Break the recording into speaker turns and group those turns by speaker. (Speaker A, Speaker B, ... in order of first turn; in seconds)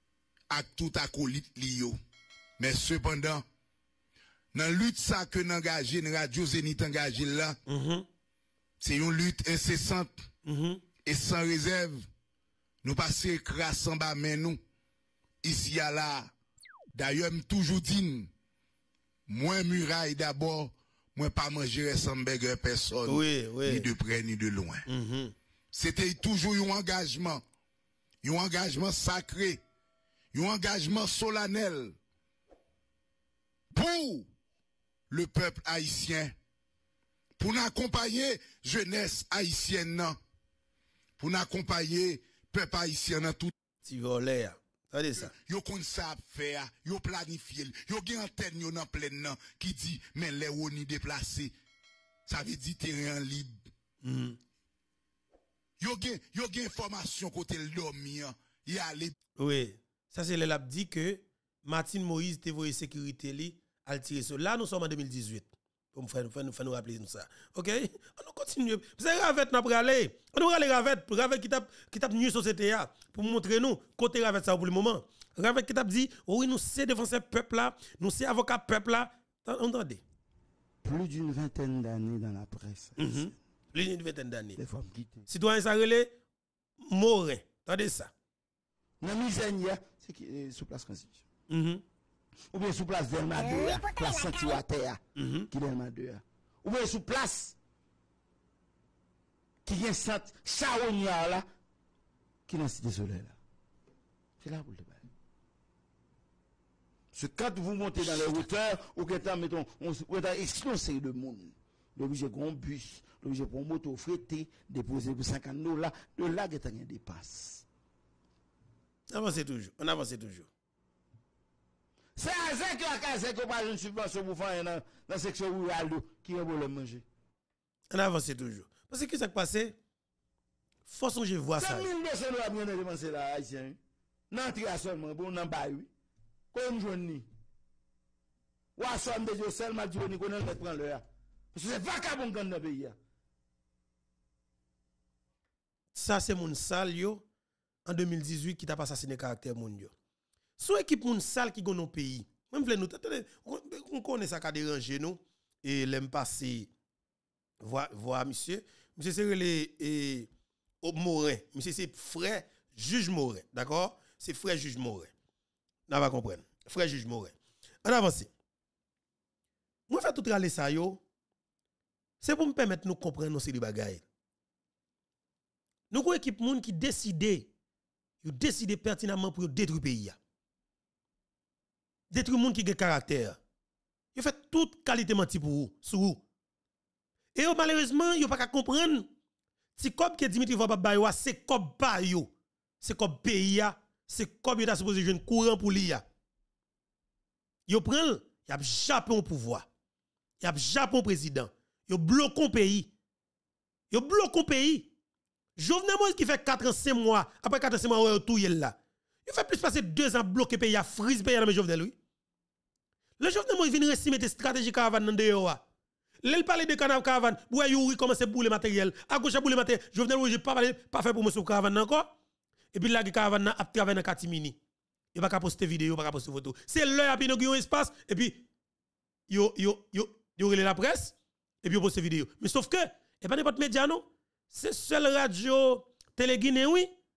Speaker A: 0.5-2.0, 2.6-3.4, 4.5-7.6, 8.8-10.2, 11.1-12.1, 12.8-14.6, 15.4-16.3, 16.9-18.3, 19.3-24.8, 25.7-27.4, 28.2-29.6, 30.3-31.9, 33.7-34.3, 35.1-36.3, 37.4-40.2, 41.2-43.5, 45.1-51.5, 52.3-53.7, 55.8-59.1
Speaker B: 7.7-8.1, 10.4-10.8, 23.1-23.9, 24.9-25.3, 43.8-45.3, 54.0-54.4, 59.4-80.0, 83.0-84.6, 85.3-86.1, 86.8-88.1, 91.5-91.8, 95.2-95.5, 119.1-120.5, 127.9-129.8, 130.8-131.9, 145.9-147.2, 147.9-149.9, 150.6-156.7, 157.6-160.3, 160.8-165.1, 165.9-168.3, 169.9-171.0, 172.2-174.0, 175.9-177.5, 178.2-180.2, 182.1-183.4, 184.1-186.2, 187.3-189.1, 189.8-196.0, 197.7-199.7, 200.4-202.9, 203.9-204.9, 205.6-211.9, 213.2-215.6, 216.2-222.1, 222.7-224.6, 225.1-228.4, 229.3-236.9
Speaker C: 80.8-83.2, 84.5-85.2, 89.0-91.2, 92.5-97.5, 99.6-101.5, 102.5-103.4, 104.4-105.1, 107.1-117.6, 122.2-127.0, 131.6-133.8, 134.3-135.9, 136.5-137.3, 138.8-142.9